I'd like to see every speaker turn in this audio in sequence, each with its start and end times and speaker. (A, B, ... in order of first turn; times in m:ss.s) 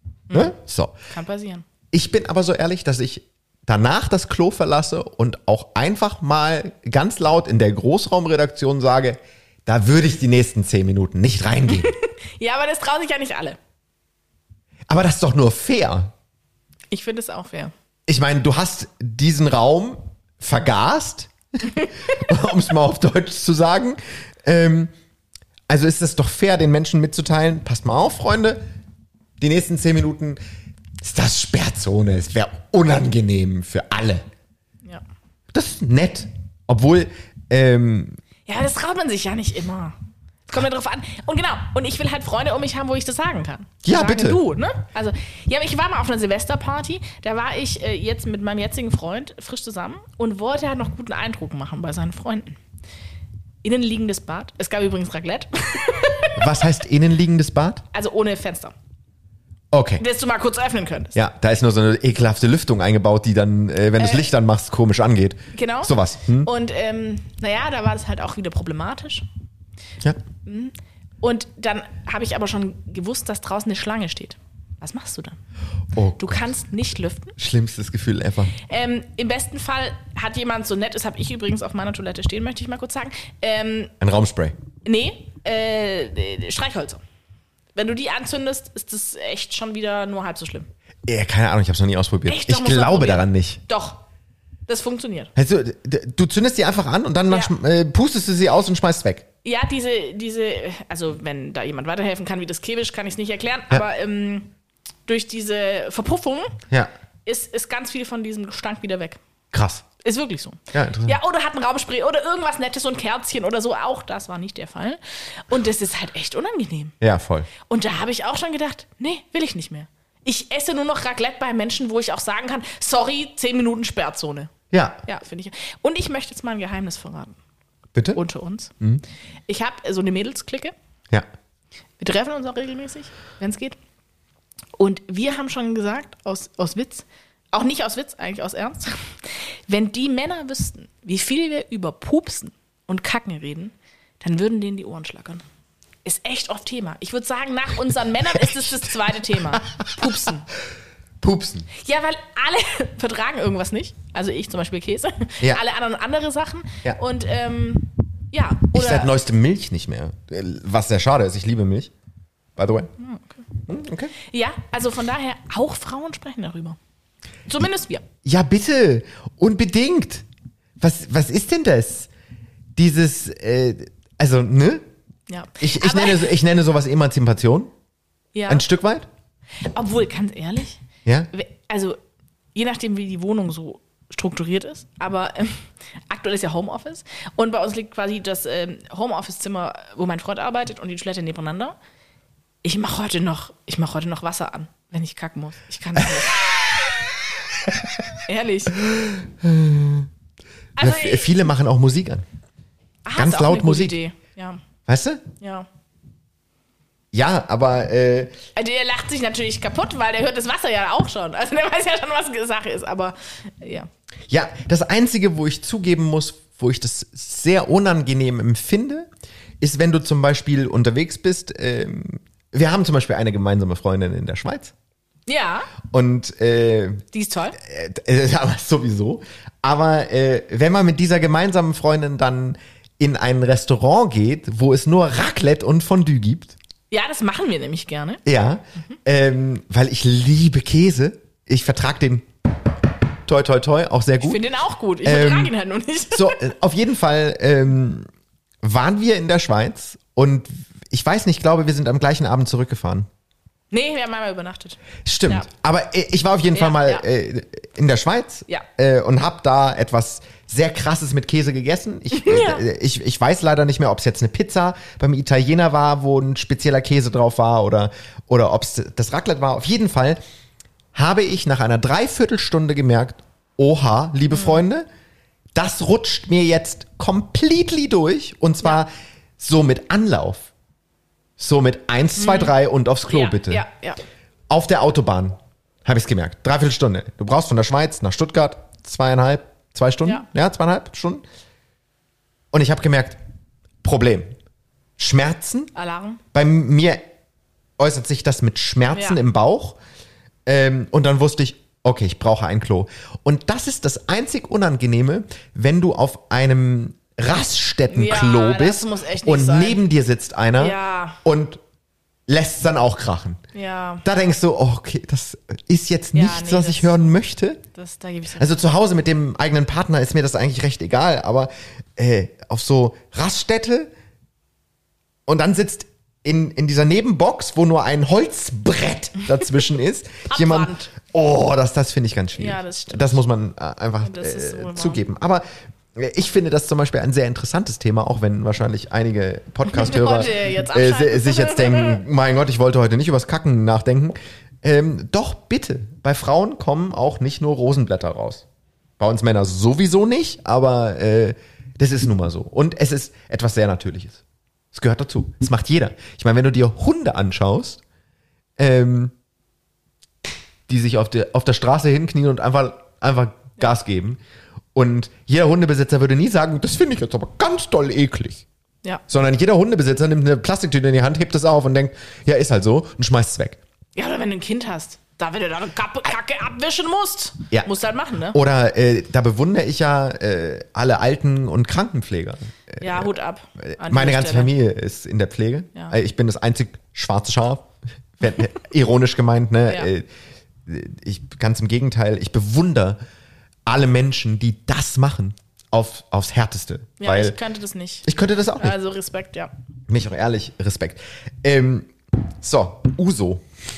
0:00.3-0:00.5 A
0:00.3-0:01.0 B
0:01.1-0:01.6 A
0:01.9-0:11.9 B
0:11.7-0:13.6 A
0:14.9-0:16.1 B
0:16.9-0:17.7 A
0:18.1-0:24.9 B
0:25.7-0:28.6 B
0:29.4-0:30.4 B
0:31.0-0:34.2 B
0:35.5-0:38.2 B
0:38.4-0:40.0 A
0:40.5-0:52.6 A
0:43.8-0:44.4 B
0:53.6-0:56.6 A
0:56.4-0:57.8 B
0:57.9-0:58.7 A
0:59.7-1:00.0 B
1:00.0-1:01.2 A
1:01.1-1:06.5 B
1:04.0-1:04.2 A
1:05.5-1:09.2 A
1:10.4-1:15.4 A
1:15.9-1:16.4 B
1:16.2-1:17.4 A
1:17.4-1:18.5 B
1:18.6-1:23.9 A
1:24.0-1:24.6 B
1:24.8-1:27.0 A
1:27.7-1:30.7 A
1:31.0-1:33.6 B
1:32.2-1:34.0 A
1:34.7-1:35.3 A
1:35.4-1:39.2 B
1:39.4-1:44.5 A
1:45.0-1:46.6 A
1:47.2-1:49.2 A
1:49.5-1:49.8 B
1:50.0-1:56.9 A
1:50.7-1:51.2 B
1:57.0-1:57.5 B
1:57.6-2:04.5 A
2:04.7-2:05.0 B
2:05.0-2:07.4 A
2:08.1-2:08.7 A
2:09.5-2:10.7 A
2:12.0-2:13.8 A
2:14.8-2:25.4 A
2:26.0-2:30.5 A
2:28.4-2:30.1 B
2:31.2-2:31.7 B
2:31.7-2:39.1 A
2:38.7-2:41.9 B
2:42.6-2:42.9 B
2:43.0-2:43.4 A
2:43.7-2:44.1 B
2:44.3-2:46.8 A
2:47.5-2:48.0 A
2:48.2-2:50.2 B
2:50.8-2:52.1 B
2:52.8-2:54.9 B
2:55.3-2:56.3 A
2:55.6-2:57.7 B
2:58.3-2:58.6 A
2:58.5-2:59.1 B
2:59.7-3:00.8 A
3:01.3-3:02.0 A
3:02.5-3:11.7 A
3:12.6-3:16.4 A
3:18.2-3:18.8 A
3:18.8-3:20.1 B
3:20.8-3:21.4 A
3:20.8-3:22.2 B
3:23.0-3:24.6 A
3:23.2-3:24.0 B
3:24.9-3:25.2 B
3:25.4-3:25.7 A
3:27.1-3:28.3 B
3:28.5-3:33.9 A
3:34.3-3:39.1 B
3:39.6-3:44.7 B
3:45.3-3:45.7 A
3:45.9-3:47.0 B
3:47.1-3:47.6 A
3:47.6-3:56.5 B
3:56.9-3:58.2 A
3:58.2-4:02.3 B
4:03.2-4:04.4 B
4:04.2-4:06.4 A
4:05.0-4:05.5 B
4:06.1-4:08.1 B
4:08.6-4:13.1 B
4:13.7-4:15.5 A
4:15.0-4:30.2 B
4:16.5-4:17.0 A
4:22.1-4:22.6 A
4:30.9-4:34.9 B
4:34.3-4:34.6 A
4:35.5-4:40.5 B
4:41.4-4:43.6 B
4:42.2-4:42.5 A
4:43.1-4:44.0 A
4:44.5-4:51.2 B
4:52.5-4:53.2 B
4:53.8-4:54.3 B
4:55.0-4:55.7 B
4:55.7-4:56.2 A
4:56.3-4:57.0 B
4:57.8-4:59.8 B
4:58.9-4:59.2 A
5:00.4-5:11.6 B
5:07.9-5:09.8 A
5:10.6-5:11.2 A
5:12.3-5:13.4 B
5:13.5-5:14.0 A
5:14.0-5:17.6 B
5:16.1-5:17.0 A
5:17.7-5:18.5 A
5:18.4-5:23.9 B
5:25.2-5:35.4 B
5:30.3-5:30.9 A
5:32.3-5:33.2 A
5:34.0-5:35.0 A
5:35.9-5:48.4 B
5:39.6-5:42.0 A
5:49.0-5:54.2 B
5:54.7-5:57.8 B
5:58.6-5:59.1 B
6:00.7-6:04.2 B
6:04.7-6:08.4 B
6:09.1-6:13.6 B
6:14.0-6:18.4 A
6:18.3-6:30.1 B
6:22.8-6:24.5 A
6:30.6-6:33.0 B
6:33.6-6:37.4 B
6:37.0-6:38.0 A
6:38.0-6:38.8 B
6:38.6-6:39.5 A
6:39.9-6:43.4 B